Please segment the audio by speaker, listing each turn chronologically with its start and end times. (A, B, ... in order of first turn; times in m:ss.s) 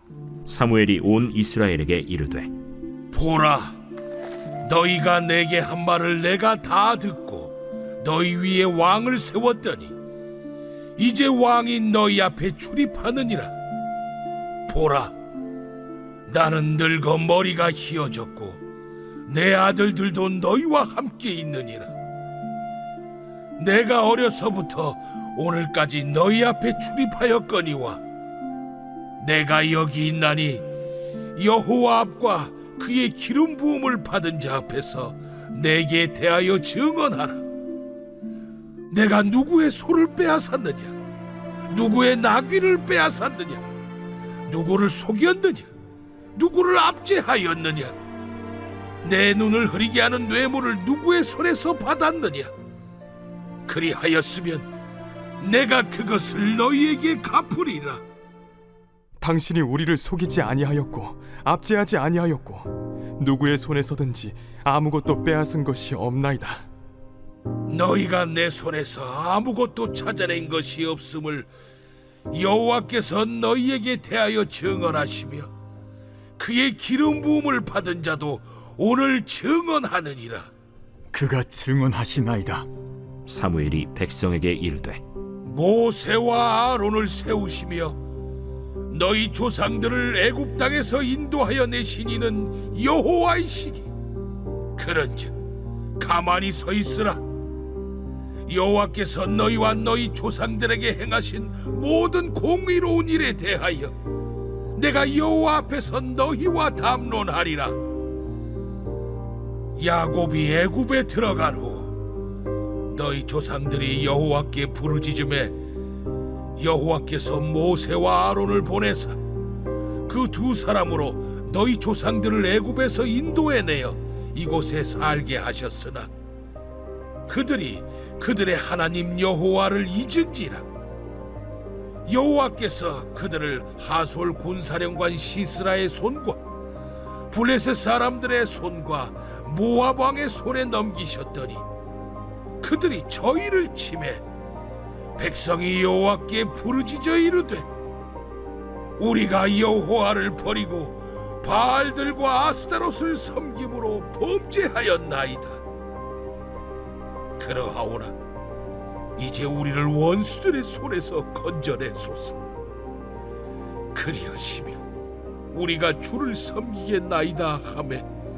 0:00.4-0:02.5 A
0:03.1-0:03.8 B
0:04.6-0:09.9 B
0:11.0-0:13.5 B
0:14.7-0:15.1 B
0:16.3-0:18.6 B
0:19.3-0:21.9 B
0:23.6-0:28.0 B
0:29.2-0:30.6 B
0:31.4-0:37.4 B
0:38.9-0:41.0 B
0:41.7-0:43.6 B
0:44.5-0:45.7 B
0:46.4-0:47.9 B
0:49.0-0:52.5 B
0:53.7-0:54.7 B
0:55.4-0:58.0 B
0:59.2-1:06.6 C
1:07.7-1:11.5 B
1:12.3-1:15.5 B
1:16.4-1:20.5 B
1:21.1-1:22.7 C
1:23.3-1:25.0 A
1:25.4-1:28.0 B
1:28.9-1:33.9 B
1:34.8-1:35.4 B
1:36.0-1:37.2 B
1:38.5-1:43.9 B
1:44.8-1:47.8 B
1:49.8-1:51.9 B
1:52.9-1:55.5 B
1:56.6-1:59.2 B
2:00.1-2:06.1 B
2:07.3-2:10.6 B
2:12.1-2:16.4 B
2:17.3-2:21.6 B
2:22.6-2:24.2 B
2:25.2-2:27.6 B
2:29.0-2:35.6 B
2:37.4-2:38.1 B
2:39.2-2:42.4 B
2:43.9-2:44.8 B
2:45.5-2:48.0 B